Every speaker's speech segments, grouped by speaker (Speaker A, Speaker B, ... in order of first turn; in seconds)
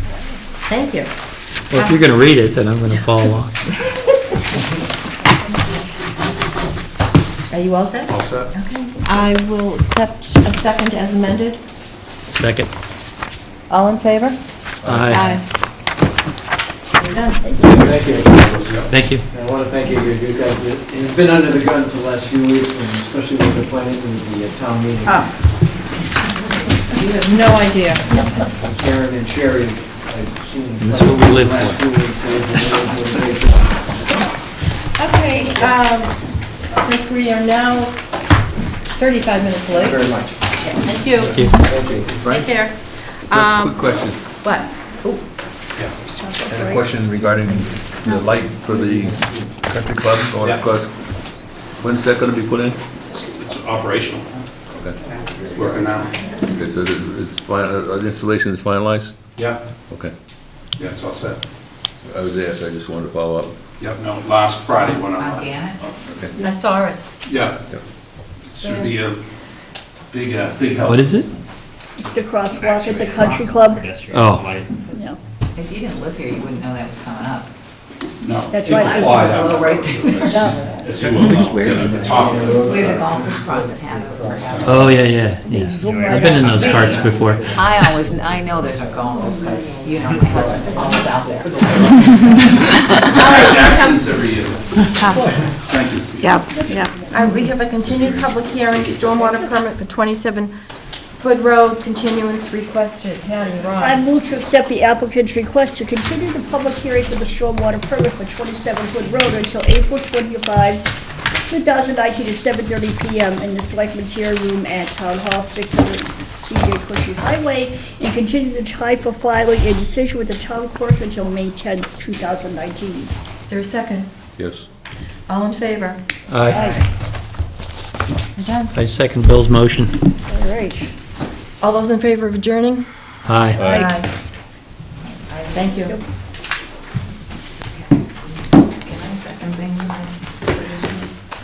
Speaker A: 0.7-1.1, 1.7-2.0, 7.5-11.6, 13.7-14.4, 15.1-15.4, 17.0-17.4, 26.9-28.1, 35.0-36.2, 36.7-38.0, 38.9-41.5, 42.3-45.2, 66.4-67.0, 68.6-69.0, 93.1-94.0, 97.0-100.5, 101.2-104.0, 123.4-124.1, 125.3-126.8, 128.4-128.7, 131.6-132.9, 133.6-134.1, 135.5-136.0
Speaker B: 1.7-3.5, 12.3-12.7, 14.9-15.4, 18.9-19.2, 30.8-31.9, 41.3-41.6, 70.8-71.3, 74.1-74.7, 81.3-82.2, 84.6-87.6, 126.3-126.6, 128.7-130.0, 133.3-133.6
Speaker C: 8.1-8.5, 18.6-18.9, 53.1-54.3, 55.5-56.2, 60.8-61.4, 63.8-65.9, 67.3-67.6, 68.5-69.2, 70.1-71.0, 72.7-73.6, 78.2-83.0, 84.5-84.8, 85.8-86.6, 91.8-92.1, 93.1-96.5
Speaker D: 14.8-15.1, 43.3-44.2, 46.5-51.0, 51.8-52.8, 54.7-55.0, 56.5-59.3, 62.0-63.6, 66.1-66.3, 81.2-82.0, 85.9-86.3, 124.4-124.7, 133.6-133.8
Speaker E: 17.6-25.3, 28.6-34.2, 39.8-40.2, 41.6-42.2, 48.7-49.5, 80.8-84.9, 87.1-87.7, 88.9-89.6, 90.3-90.7
Speaker F: 46.0-47.2, 72.0-73.9, 74.9-75.2, 78.5-79.5, 80.3-80.6, 85.4-87.0, 94.8-97.5, 99.2-99.5, 103.8-110.9, 111.5-123.1, 126.5-126.8, 130.3-130.9, 133.5-134.0
Speaker G: 64.8-65.8, 75.5-77.5, 78.6-80.8, 82.5-85.0, 86.6-93.4, 135.3-135.8, 138.8-141.0